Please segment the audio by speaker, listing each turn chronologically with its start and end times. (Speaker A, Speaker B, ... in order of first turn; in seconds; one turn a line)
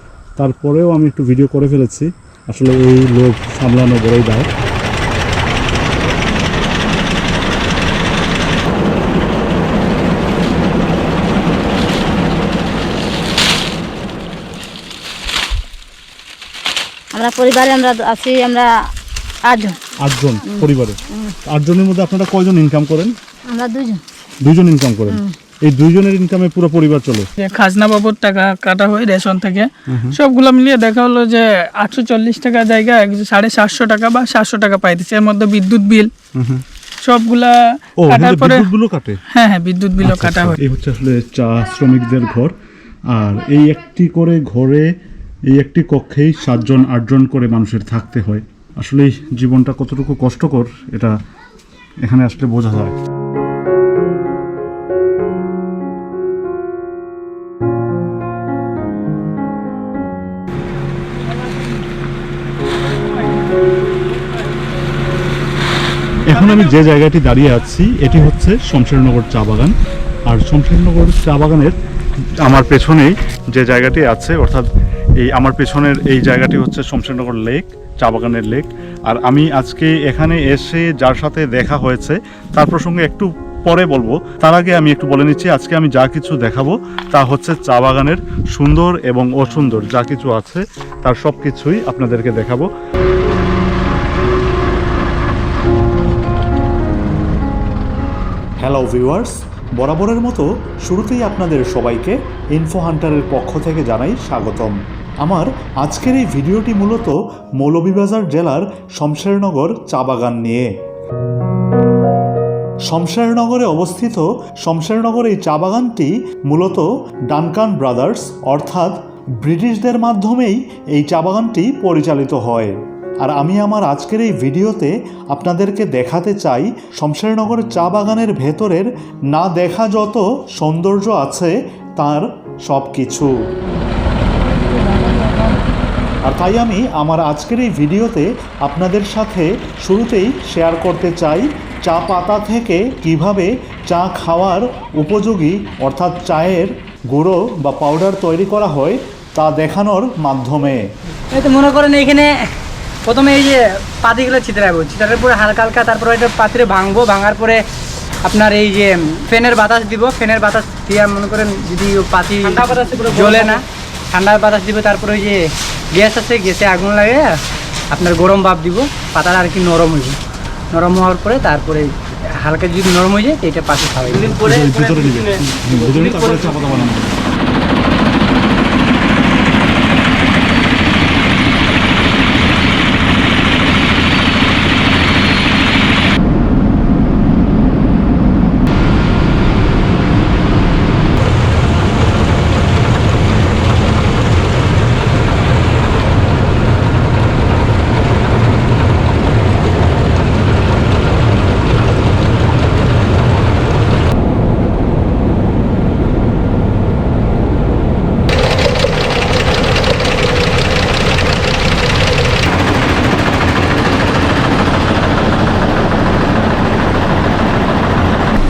Speaker A: 0.4-4.5
Speaker B: 17.1-18.7
Speaker B: 19.5-19.8
Speaker A: 20.0-23.1
Speaker B: 20.5-21.3
Speaker B: 23.5-24.0
Speaker A: 24.4-27.3
Speaker B: 25.1-25.3
Speaker C: 27.4-36.1
Speaker A: 29.9-30.2
Speaker A: 36.4-36.6
Speaker C: 37.0-38.7
Speaker A: 38.0-39.2
Speaker C: 39.3-40.6
Speaker A: 40.0-42.5
Speaker A: 43.1-44.9
Speaker A: 45.5-51.1
Speaker A: 52.0-53.0
Speaker A: 66.3-69.7
Speaker A: 70.3-71.8
Speaker A: 72.4-74.7
Speaker A: 75.2-92.7
Speaker D: 98.6-110.7
Speaker D: 112.9-133.3
Speaker C: 134.5-135.6
Speaker D: 136.2-150.9
Speaker E: 151.3-152.5
Speaker E: 153.1-157.6
Speaker E: 158.3-165.4
Speaker E: 165.9-167.3
Speaker E: 167.9-170.2
Speaker E: 170.7-175.2
Speaker A: 174.2-177.1
Speaker E: 175.9-176.6